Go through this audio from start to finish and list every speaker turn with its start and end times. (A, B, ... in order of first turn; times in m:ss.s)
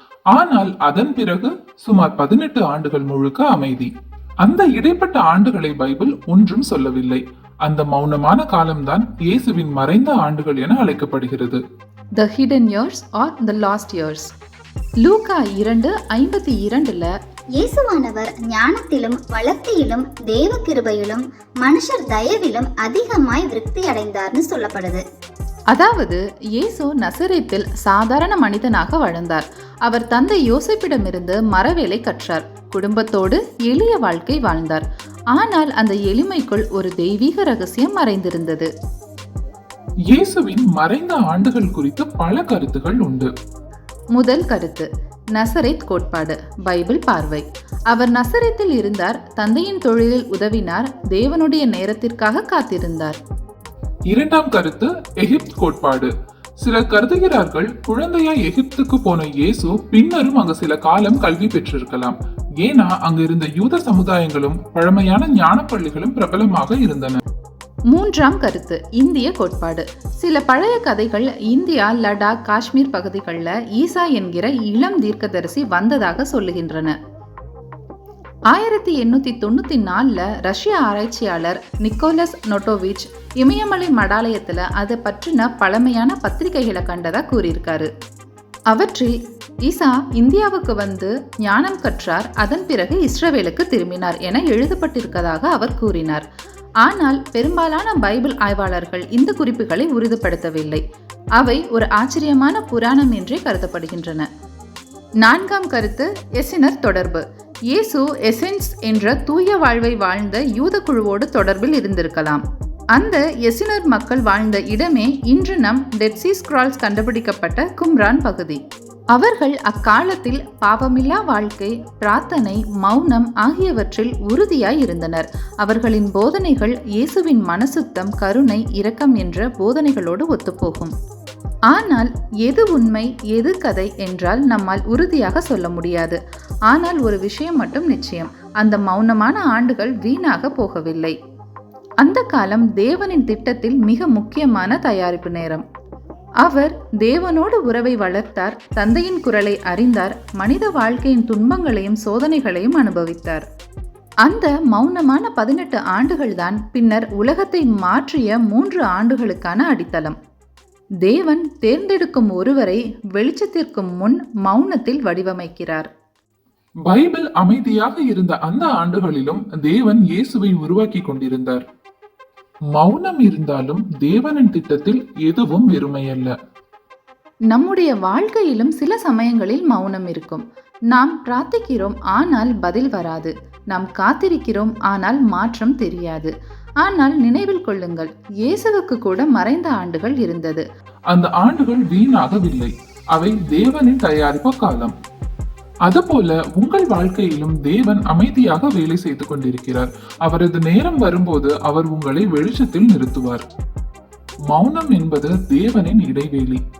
0:00.3-0:03.9 A
0:04.4-0:11.6 A
0:12.2-0:14.3 B
0:15.0-0:17.1 B
0:17.6-0:25.0 C
0:25.7-0:38.7 B
0:40.1-0:43.3 A
0:44.2-0:53.2 B
0:54.1-0:56.1 A
0:56.6-1:07.2 A
1:07.9-1:17.0 B
1:18.5-1:27.9 B
1:28.7-1:29.1 B
1:29.6-1:36.2 B
1:36.8-1:40.8 B
1:41.4-1:44.3 B
1:45.2-1:52.4 B
1:53.0-1:58.6 B
1:59.1-2:10.9 B
2:11.7-2:16.2 B
2:16.7-2:21.2 B
2:22.0-2:25.6 B
2:26.4-2:33.4 B
2:34.3-2:40.2 B
2:41.0-2:45.9 B
2:46.9-2:51.6 A
2:52.8-2:56.3 A
2:57.5-3:06.3 B
3:06.8-3:10.6 B
3:11.1-3:14.9 A
3:15.9-3:23.4 A
3:24.5-3:26.6 A